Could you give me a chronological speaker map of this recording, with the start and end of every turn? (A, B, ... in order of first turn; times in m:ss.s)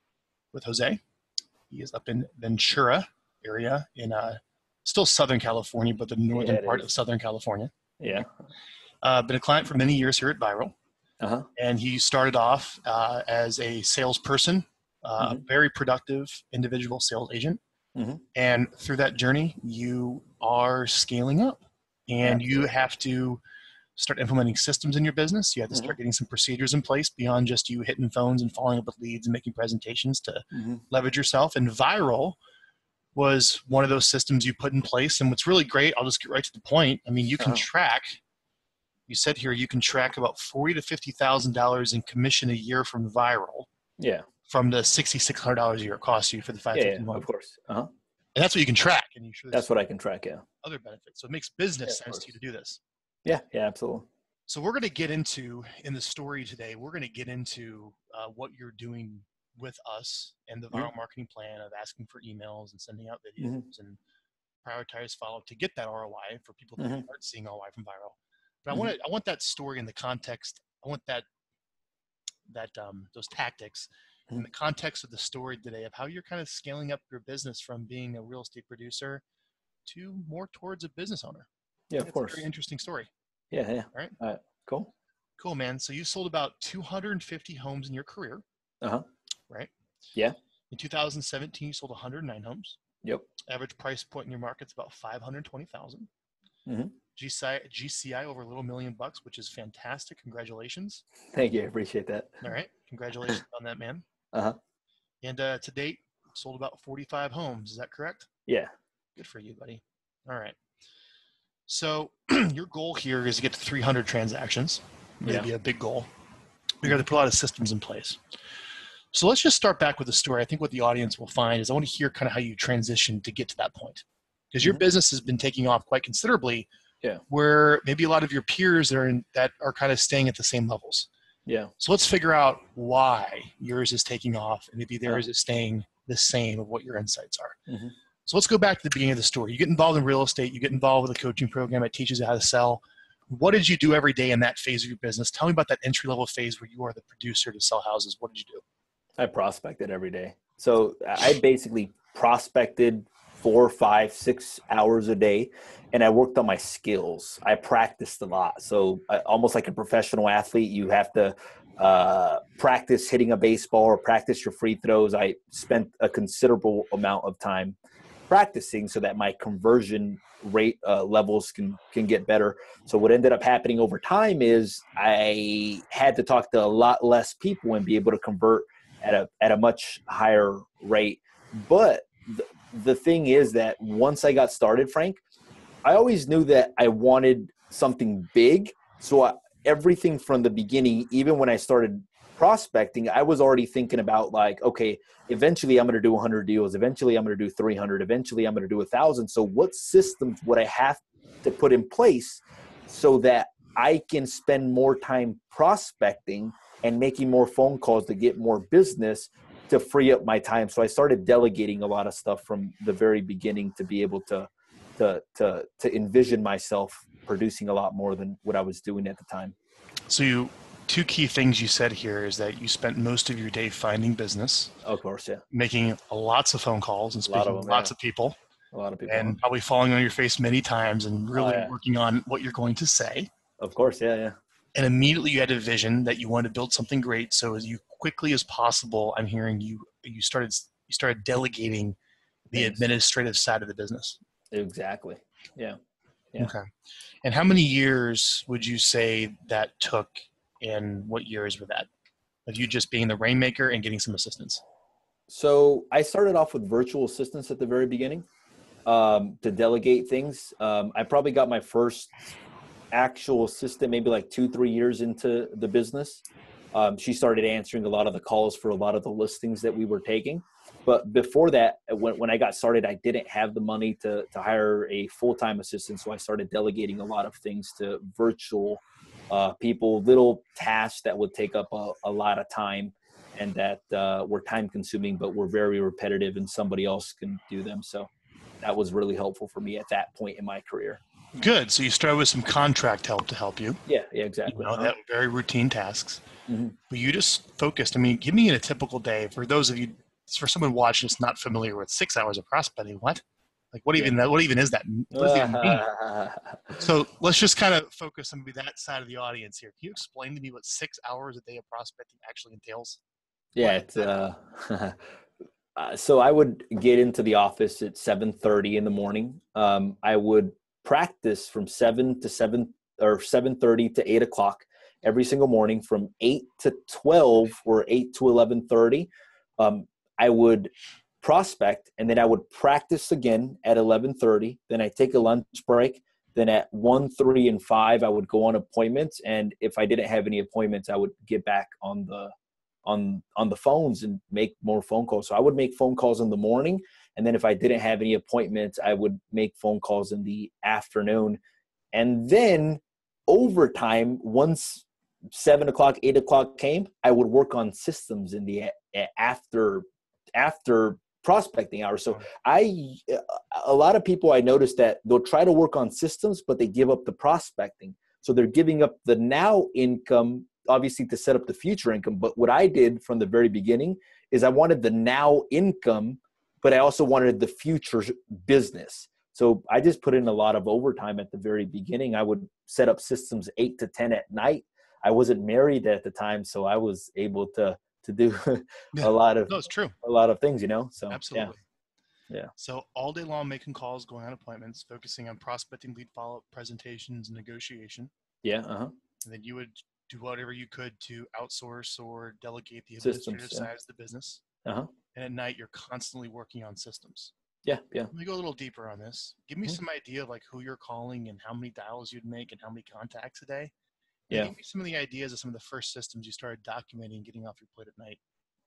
0:00.5-0:01.0 A
0:01.7-0:07.7 A
0:06.3-0:06.9 B
0:08.0-0:08.3 B
0:09.0-0:10.7 A
0:11.2-0:11.5 B
0:11.6-0:17.6 A
0:17.9-0:18.2 B
0:18.3-0:23.4 A
0:22.2-0:22.7 B
0:24.0-0:32.4 A
0:30.5-0:30.8 B
0:33.1-0:38.2 A
0:39.1-0:43.7 A
0:44.0-0:44.2 B
0:44.5-0:47.2 A
0:46.7-0:47.9 B
0:48.4-0:49.7 A
0:49.5-0:50.4 B
0:50.6-0:52.8 A
0:51.9-0:52.2 B
0:53.2-0:54.1 B
0:54.5-1:04.0 A
1:03.4-1:03.6 B
1:04.6-1:11.2 A
1:06.8-1:07.0 B
1:12.5-1:19.2 A
1:19.8-1:21.5 A
1:21.9-1:22.4 B
1:22.0-1:23.1 A
1:23.5-1:24.9 B
1:25.4-1:28.4 A
1:30.7-1:32.8 A
1:33.5-1:36.1 A
1:36.7-1:36.9 B
1:37.2-1:41.0 A
1:41.3-1:42.4 B
1:42.4-1:44.0 A
1:45.2-1:48.3 A
1:49.2-1:50.6 A
1:51.7-1:56.1 A
1:55.2-1:55.5 B
1:56.8-1:58.2 A
1:59.1-2:06.7 A
2:07.3-2:11.1 A
2:11.5-2:11.7 B
2:11.8-2:17.6 A
2:17.7-2:17.9 B
2:18.2-2:28.6 A
2:29.2-2:47.8 B
2:48.3-3:05.2 B
3:05.8-3:39.5 B
3:40.1-3:44.7 A
3:44.8-3:45.4 B
3:45.5-3:48.4 A
3:47.2-3:47.9 B
3:48.7-3:49.4 B
3:49.1-3:53.3 A
3:51.3-3:51.7 B
3:53.6-3:54.4 B
3:54.7-4:02.0 A
4:02.5-4:02.8 B
4:02.5-4:04.2 A
4:04.5-4:05.8 B
4:06.4-4:06.6 A
4:07.2-4:11.9 A
4:12.4-4:14.6 A
4:15.3-4:18.2 B
4:18.8-4:22.2 B
4:22.9-4:48.1 B
4:48.6-4:51.0 B
4:51.3-4:53.8 A
4:53.8-4:54.9 B
4:54.5-4:56.2 A
4:56.5-4:56.7 B
4:56.9-5:05.8 A
5:05.1-5:06.8 B
5:06.8-5:13.0 A
5:13.5-5:15.0 B
5:13.6-5:14.2 A
5:15.8-5:30.7 B
5:31.2-5:42.3 B
5:42.8-5:51.4 B
5:51.9-6:31.5 B
6:28.9-6:30.0 A
6:31.1-6:31.6 A
6:32.6-6:38.1 A
6:38.4-6:38.9 B
6:39.2-6:44.4 A
6:43.0-6:43.7 B
6:45.1-6:47.3 A
6:47.6-6:48.1 B
6:48.1-6:53.7 A
6:54.3-6:58.2 A